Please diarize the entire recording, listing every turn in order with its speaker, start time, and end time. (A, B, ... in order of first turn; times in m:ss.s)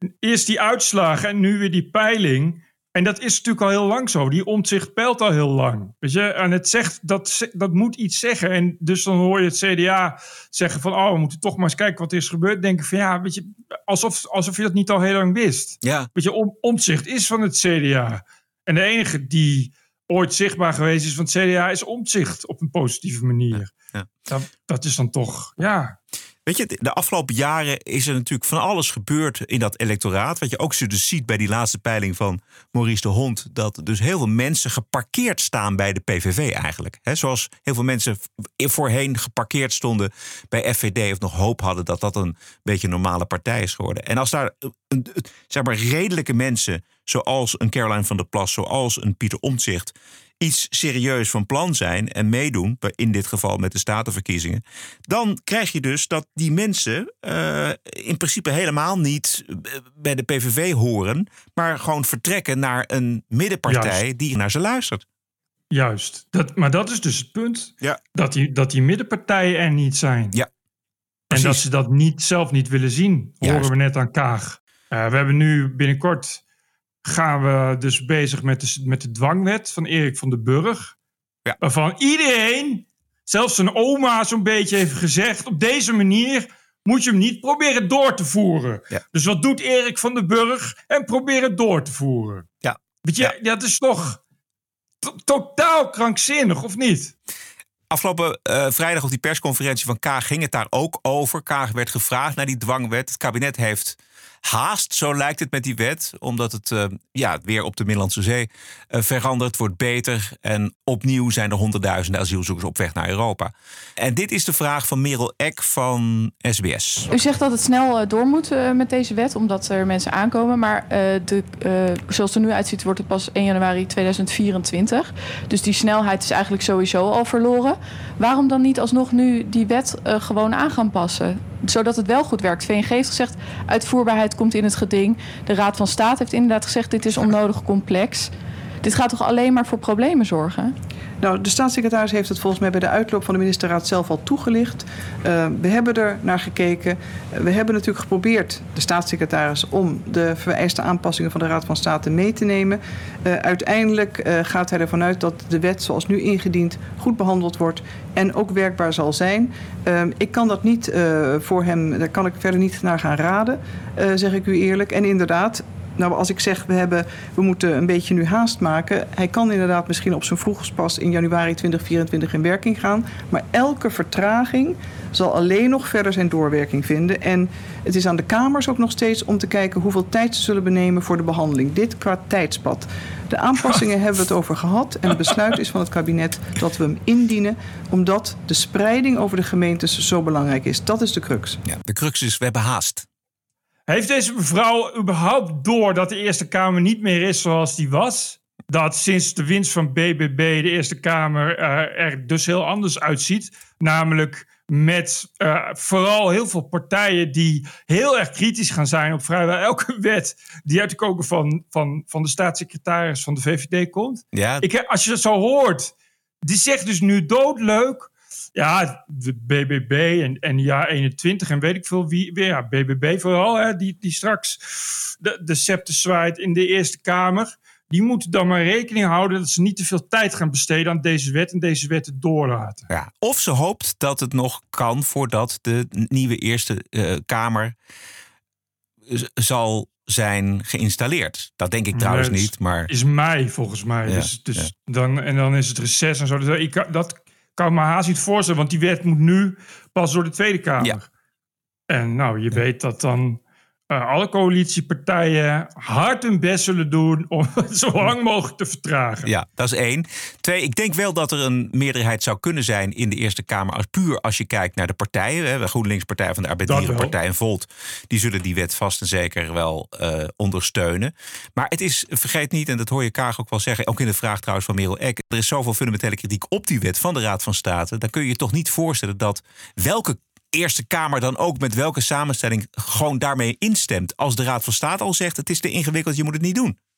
0:00.2-0:23.7 A
0:15.8-0:16.1 B
0:23.5-0:24.1 B
0:24.3-0:26.0 A
0:26.5-1:05.0 B
1:03.7-1:04.0 A
1:05.7-1:10.4 A
1:11.3-1:11.6 B
1:11.3-1:16.4 A
1:13.4-1:13.7 B
1:17.0-1:20.9 A
1:21.6-1:32.5 A
1:32.6-1:33.3 B
1:33.0-1:34.2 A
1:35.0-1:37.1 A
1:37.9-1:57.1 B
1:57.1-2:18.3 C
2:18.8-2:20.7 C
2:21.2-3:11.6 D
3:11.6-3:13.1 B
3:13.9-3:52.9 A
3:34.3-3:34.6 B
3:52.9-3:57.8 B
3:59.1-4:02.9 B
4:01.9-4:11.0 A
4:04.1-4:04.7 B
4:11.9-4:19.3 A
4:19.2-4:46.8 B
4:26.6-4:27.1 A